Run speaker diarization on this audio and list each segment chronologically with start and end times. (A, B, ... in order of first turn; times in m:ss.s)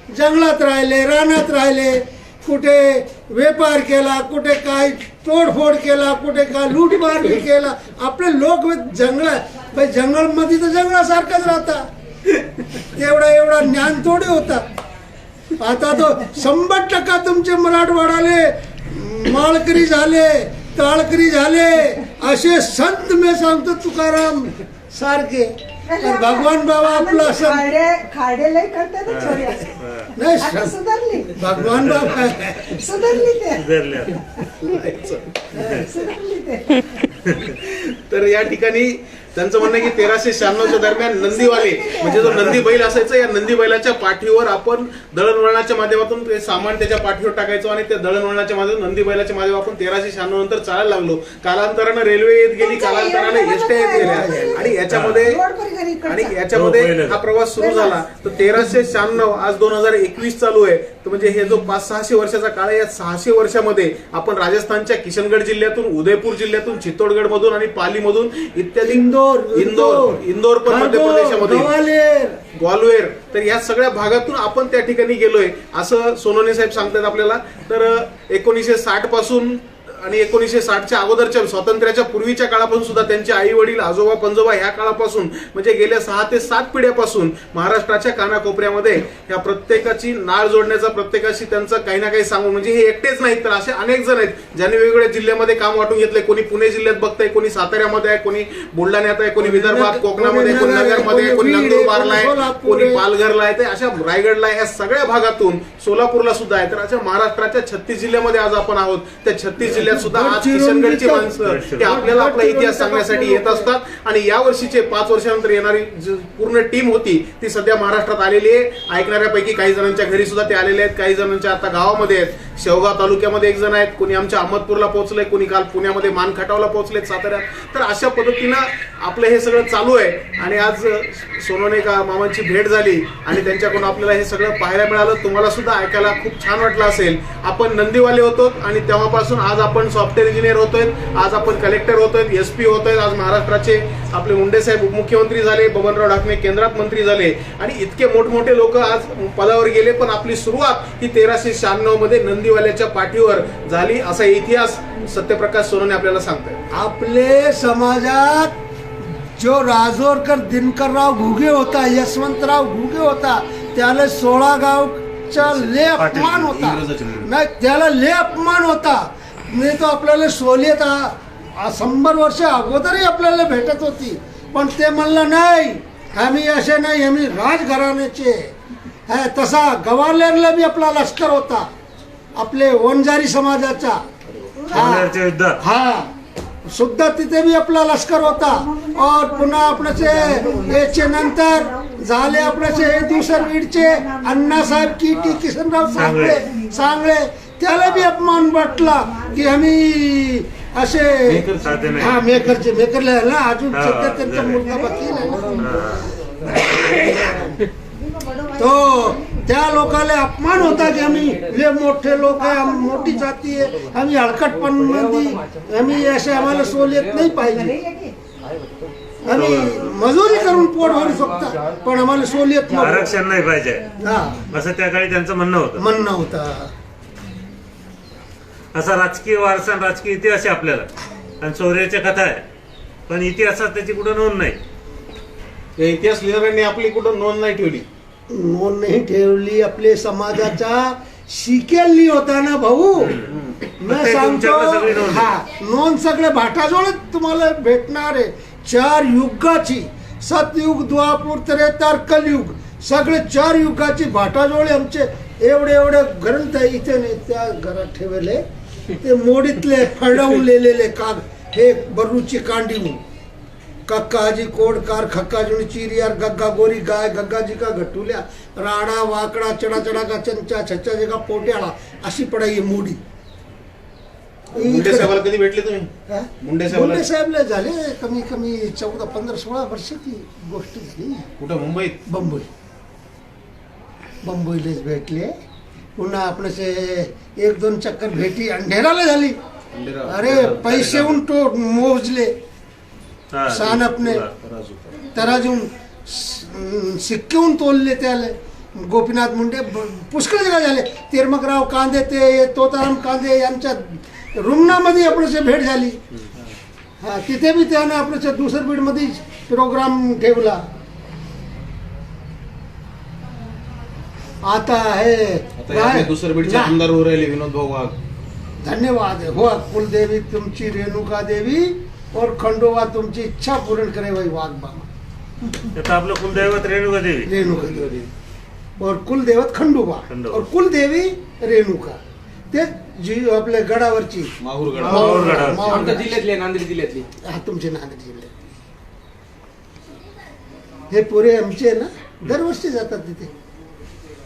0:00.1-0:11.8 A
0:12.7-0:14.6 A
0:15.6-0:27.7 A
0:25.8-0:29.8 B
0:29.0-0:30.1 C
0:30.2-0:30.8 A
0:30.4-0:31.4 B
0:31.3-0:33.2 A
0:31.6-0:32.2 C
0:32.6-0:34.5 B
0:33.5-0:34.2 C
0:34.6-0:35.3 D
0:35.5-0:35.8 A
0:35.6-0:35.8 C
0:35.6-0:37.0 B
0:37.2-0:37.6 C
0:37.6-0:55.4 D
0:40.4-0:42.7 B
0:42.2-0:42.6 C
0:52.6-0:56.4 B
0:53.9-0:54.6 A
0:54.9-0:55.3 C
0:56.0-1:11.7 D
0:56.5-0:57.2 C
0:57.6-0:58.0 B
1:08.8-1:12.4 A
1:12.5-2:36.6 D
1:39.4-1:43.0 A
1:49.7-1:53.7 A
1:51.4-1:52.0 C
2:36.7-2:38.6 A
2:39.1-2:58.5 A
2:46.0-2:46.4 C
2:46.3-2:47.3 D
2:59.1-3:01.7 A
3:02.4-3:04.0 A
3:04.4-3:05.6 C
3:04.5-3:05.2 B
3:04.7-3:05.1 A
3:05.6-3:06.1 A
3:06.6-3:25.6 A
3:08.2-3:15.2 B
3:15.8-3:17.0 B
3:16.0-3:16.4 C
3:18.0-3:19.8 B
3:20.8-3:22.2 B
3:21.2-3:22.2 C
3:23.7-3:24.7 C
3:24.6-3:25.8 B
3:25.1-3:27.6 E
3:25.6-3:26.1 C
3:26.4-3:27.7 A
3:27.9-3:29.7 B
3:28.6-3:37.7 A
3:30.5-3:31.7 E
3:31.9-3:33.4 B
3:33.6-3:37.4 E
3:37.4-3:38.2 B
3:38.4-3:39.1 E
3:39.2-3:43.2 A
3:39.2-3:40.1 B
3:39.3-3:39.8 C
3:40.2-3:43.2 E
3:42.8-3:43.9 C
3:44.0-3:44.4 A
3:44.5-3:45.8 C
3:45.8-3:46.7 A
3:48.7-3:50.9 C
3:51.4-3:52.4 C
3:53.1-3:54.6 C
3:55.8-3:57.8 D
3:58.3-4:03.1 A
4:03.0-4:03.3 C
4:03.3-4:03.6 D
4:03.8-4:18.4 A
4:03.8-4:05.3 C
4:19.0-4:23.0 A
4:23.9-4:33.0 A
4:34.6-4:35.2 A
4:34.6-4:37.0 D
4:36.1-4:41.2 A
4:41.4-4:42.0 D
4:42.1-4:42.5 A
4:44.2-4:45.3 A
4:46.0-4:49.4 A
4:49.7-4:50.8 D
4:50.1-4:52.3 A
4:50.6-4:51.2 C
4:53.3-4:55.1 C
4:53.5-4:54.2 A
4:55.1-5:06.0 A
5:07.0-5:10.6 A
5:14.4-5:16.8 A
5:15.6-5:17.9 D
5:18.6-5:24.9 A
5:25.7-5:27.3 C
5:27.2-5:28.0 A
5:27.5-5:27.9 E
5:28.8-5:32.0 A
5:30.1-5:30.4 C
5:32.5-5:36.2 A
5:34.4-5:35.5 D
5:34.9-5:37.1 E
5:34.9-5:35.8 C
5:37.2-5:38.3 A
5:40.9-5:43.3 A